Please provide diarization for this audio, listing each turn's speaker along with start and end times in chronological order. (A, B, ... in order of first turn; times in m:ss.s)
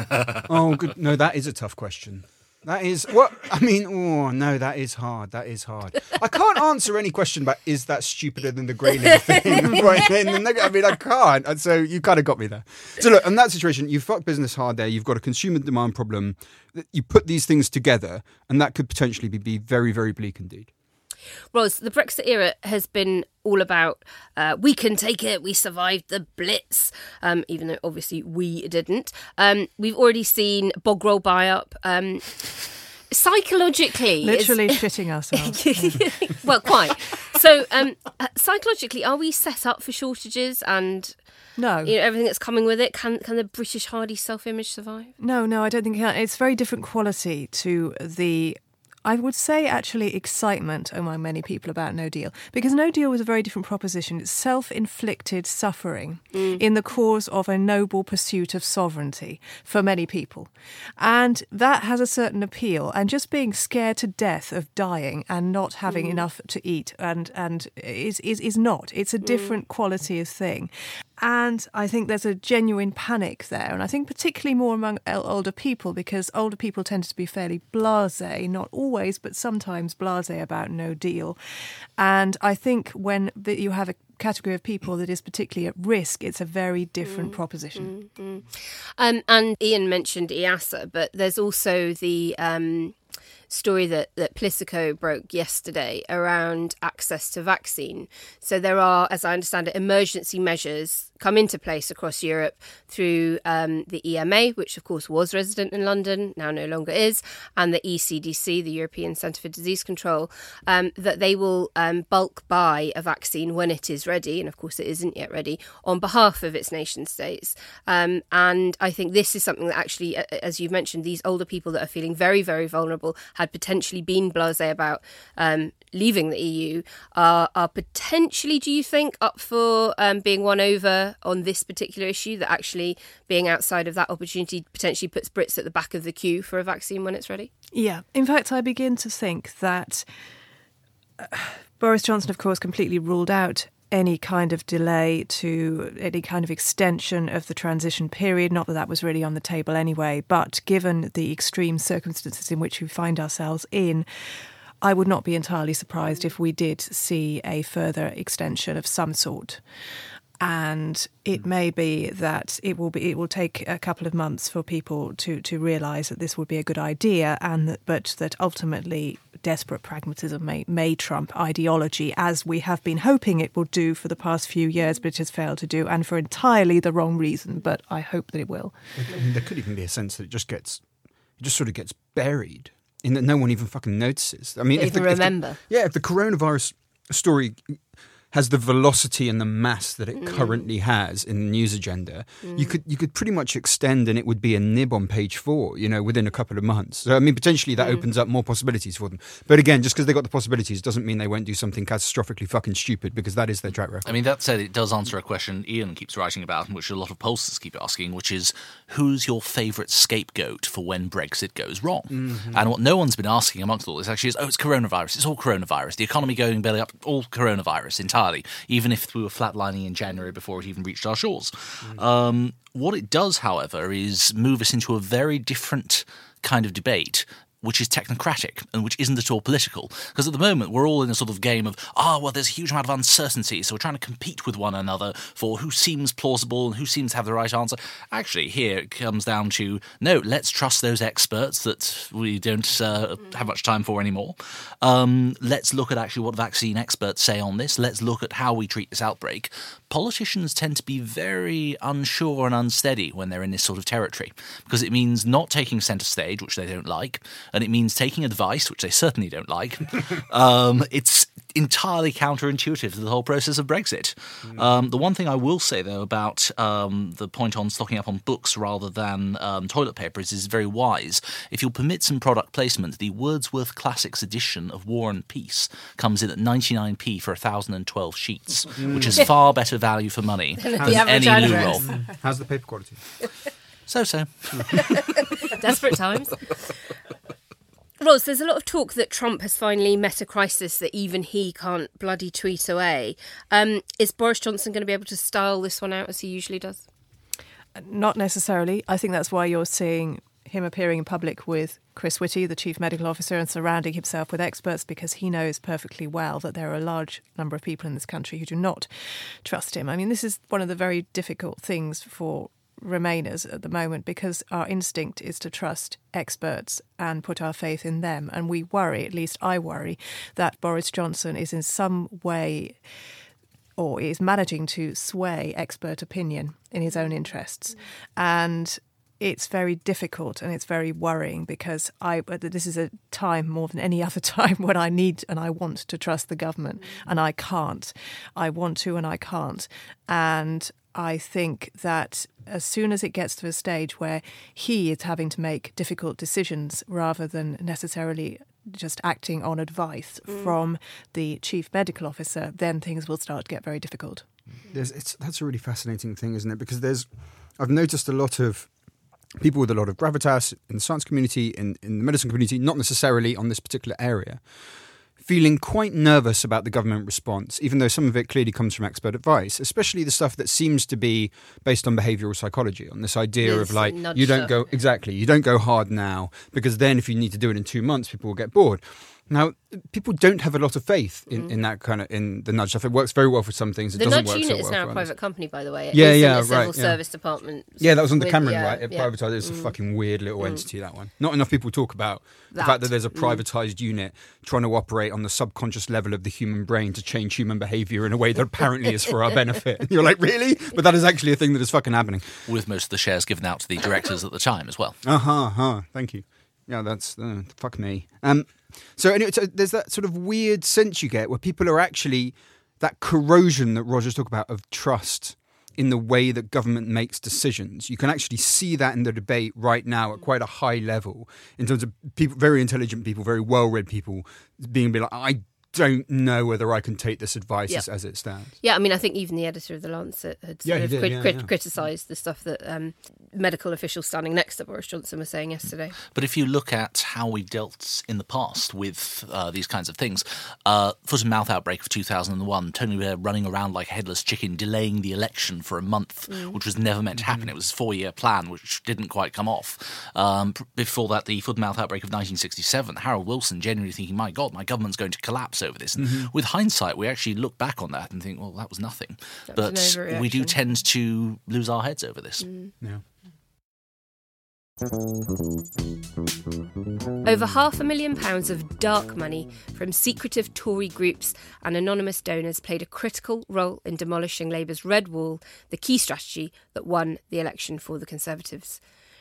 0:00.4-0:20.7 A
0:21.5-0:32.5 B
0:33.1-0:34.8 B
0:34.2-0:36.1 C
0:35.3-0:41.2 B
0:41.6-0:41.9 C
0:41.8-0:45.1 B
0:45.2-1:21.4 C
0:56.3-0:56.6 B
1:05.9-1:06.2 B
1:09.2-1:09.6 B
1:22.0-1:27.9 C
1:27.0-1:33.0 B
1:33.5-2:17.5 B
2:17.7-2:20.0 C
2:21.2-2:34.1 C
2:34.8-2:39.6 C
2:40.4-2:58.7 C
2:59.0-3:00.8 A
3:01.4-3:07.8 A
3:04.7-3:05.6 B
3:08.3-3:24.1 A
3:10.2-3:10.6 B
3:12.4-3:12.7 B
3:24.0-4:41.9 D
3:32.1-3:32.6 A
4:38.8-4:39.2 A
4:40.6-4:41.8 B
4:40.8-4:43.0 A
4:43.9-4:45.4 D
4:44.8-4:46.5 B
4:48.0-4:56.8 B
4:57.8-5:08.9 C
5:09.4-5:22.8 C
5:23.8-5:54.2 C
5:50.3-5:50.5 B
5:54.7-5:58.7 A
5:59.4-6:04.4 A
6:05.2-6:25.1 A
6:13.4-6:14.5 B
6:24.0-6:29.7 B
6:25.9-6:27.0 A
6:27.8-6:42.3 A
6:32.5-6:33.4 B
6:42.5-6:45.0 D
6:45.0-7:08.5 A
7:08.6-7:15.9 B
7:10.6-7:11.5 A
7:16.1-7:42.5 D
7:26.3-7:26.6 B
7:36.0-7:36.3 A
7:39.5-7:40.6 B
7:42.4-7:42.7 B
7:47.2-7:58.8 B